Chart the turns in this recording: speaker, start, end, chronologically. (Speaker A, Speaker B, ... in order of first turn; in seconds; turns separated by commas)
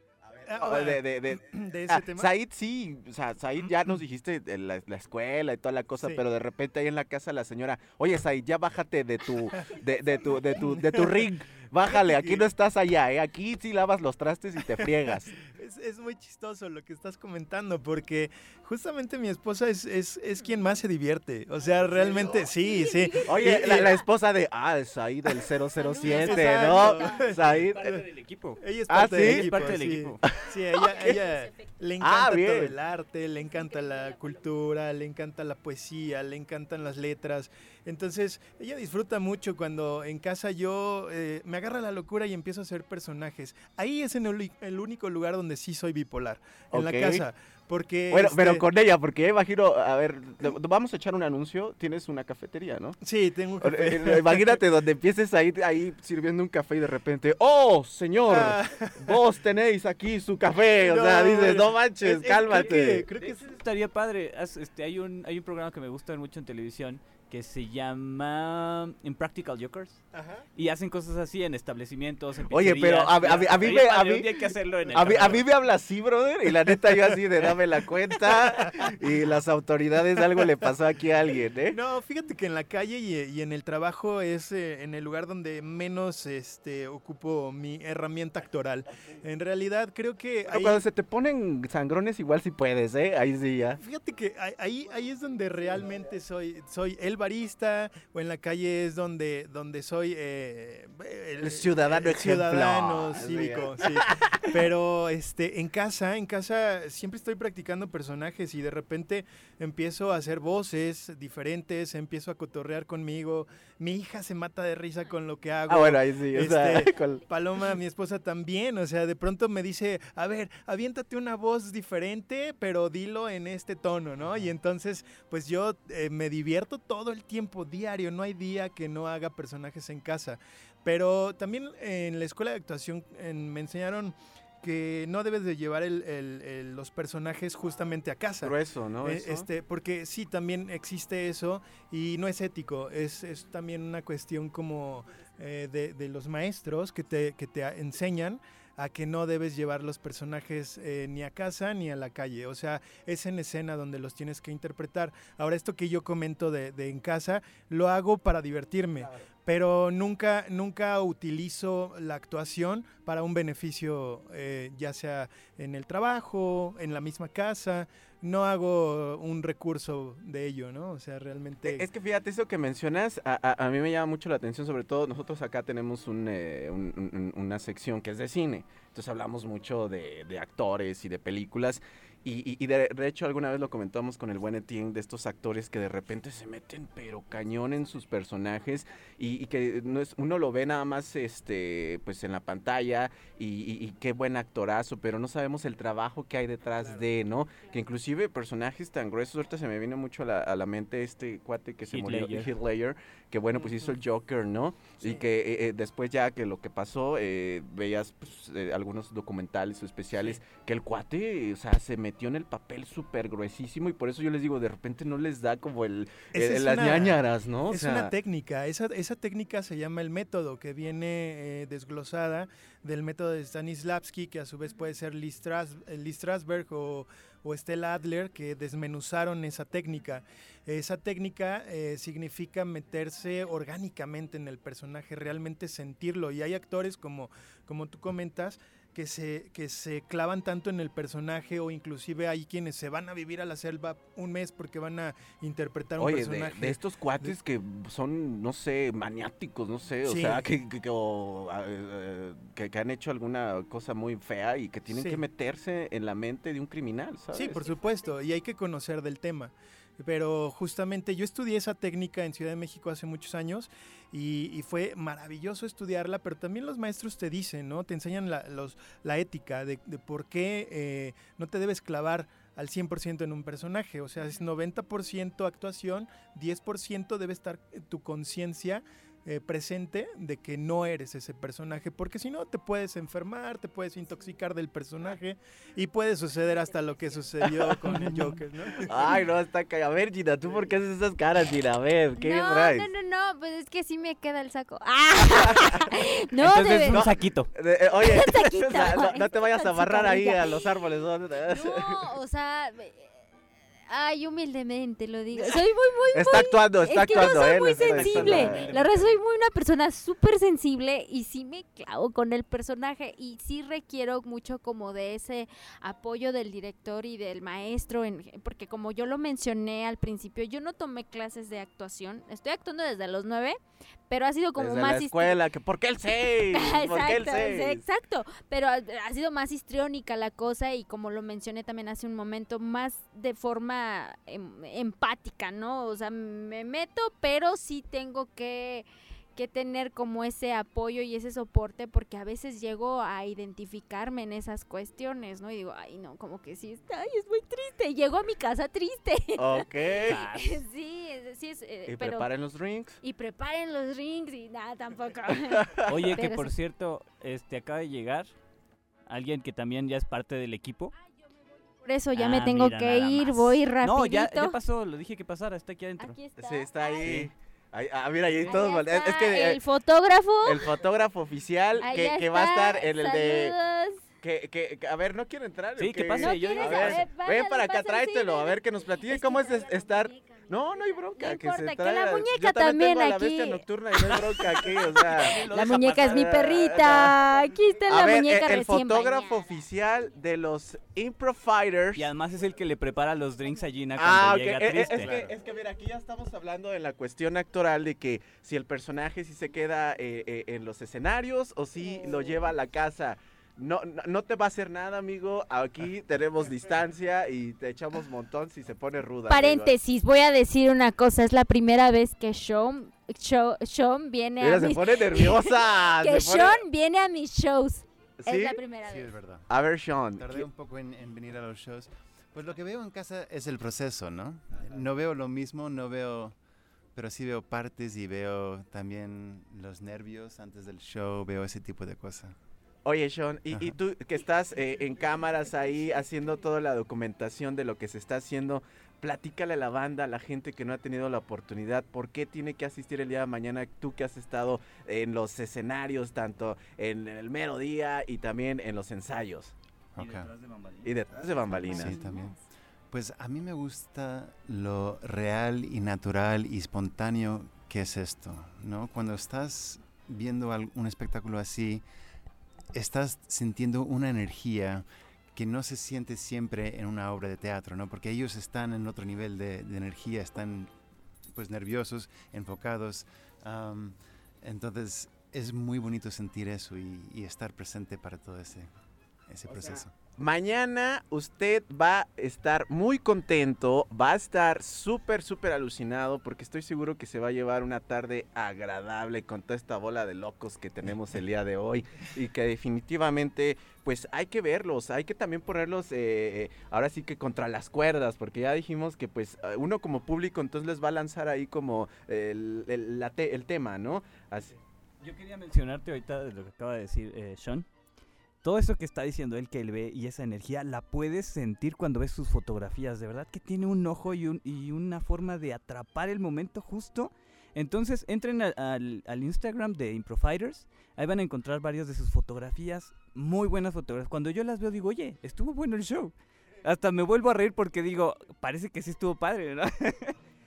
Speaker A: 0.2-15.3, Speaker B: 0.4-2.3, Speaker B: 10.6-11.2, Speaker B: 11.8-12.4, Speaker B: 15.4-24.0, Speaker A: 23.2-27.9, Speaker B: 26.0-28.0, Speaker C: 27.7-30.2, Speaker B: 28.6-48.6, Speaker A: 28.9-29.5, Speaker A: 30.2-31.2, Speaker A: 32.0-32.7, Speaker A: 46.7-47.2, Speaker A: 48.1-53.0, Speaker B: 53.0-54.6, Speaker A: 53.6-63.1, Speaker B: 58.3-59.1, Speaker B: 60.8-63.6, Speaker C: 62.5-70.0, Speaker B: 70.1-70.4, Speaker C: 70.6-75.4, Speaker A: 72.5-74.4, Speaker A: 74.9-81.8, Speaker B: 81.7-90.8, Speaker A: 90.5-93.8, Speaker B: 93.8-171.9, Speaker A: 101.4-104.0, Speaker A: 115.7-117.2, Speaker A: 138.4-139.5, Speaker A: 171.6-218.1, Speaker B: 196.8-197.0, Speaker C: 201.9-202.5, Speaker B: 203.6-203.9, Speaker B: 216.3-247.3, Speaker A: 246.0-257.6, Speaker B: 250.0-250.5, Speaker B: 254.9-255.2, Speaker B: 257.3-289.0, Speaker A: 287.4-292.9, Speaker D: 292.2-297.0, Speaker A: 295.4-295.7, Speaker C: 296.4-297.5, Speaker A: 296.9-302.0, Speaker D: 298.1-300.4, Speaker C: 298.6-298.9, Speaker D: 301.5-303.1, Speaker D: 303.9-323.6, Speaker A: 306.1-308.8, Speaker C: 307.9-308.8, Speaker D: 324.1-325.4, Speaker A: 324.6-327.8, Speaker D: 326.5-352.3, Speaker A: 349.4-350.2, Speaker C: 350.1-350.6, Speaker A: 351.9-353.0, Speaker D: 353.0-356.5, Speaker C: 355.9-358.3, Speaker C: 359.1-360.9, Speaker D: 361.8-364.6, Speaker C: 362.1-366.1, Speaker D: 366.0-367.1, Speaker A: 366.4-369.6, Speaker D: 368.4-370.7, Speaker A: 370.4-373.5, Speaker D: 371.8-374.0, Speaker A: 374.2-387.1, Speaker C: 375.8-377.0, Speaker D: 376.2-380.5, Speaker D: 381.1-389.3, Speaker A: 387.9-392.1, Speaker C: 391.9-395.1, Speaker A: 394.0-409.7, Speaker E: 395.0-395.3, Speaker D: 409.3-419.1, Speaker A: 414.4-416.6, Speaker A: 418.2-418.6, Speaker E: 418.9-419.5, Speaker A: 419.5-420.5, Speaker E: 420.1-426.4, Speaker E: 426.9-432.4, Speaker A: 432.9-449.5, Speaker E: 433.5-433.8, Speaker E: 450.0-450.3, Speaker C: 450.0-451.0, Speaker A: 450.8-452.1, Speaker D: 451.5-452.4, Speaker E: 451.6-452.4, Speaker E: 452.9-461.9, Speaker E: 462.7-470.7, Speaker E: 471.3-478.7, Speaker E: 479.3-479.9, Speaker A: 480.2-504.5, Speaker C: 505.0-507.7, Speaker C: 508.4-530.1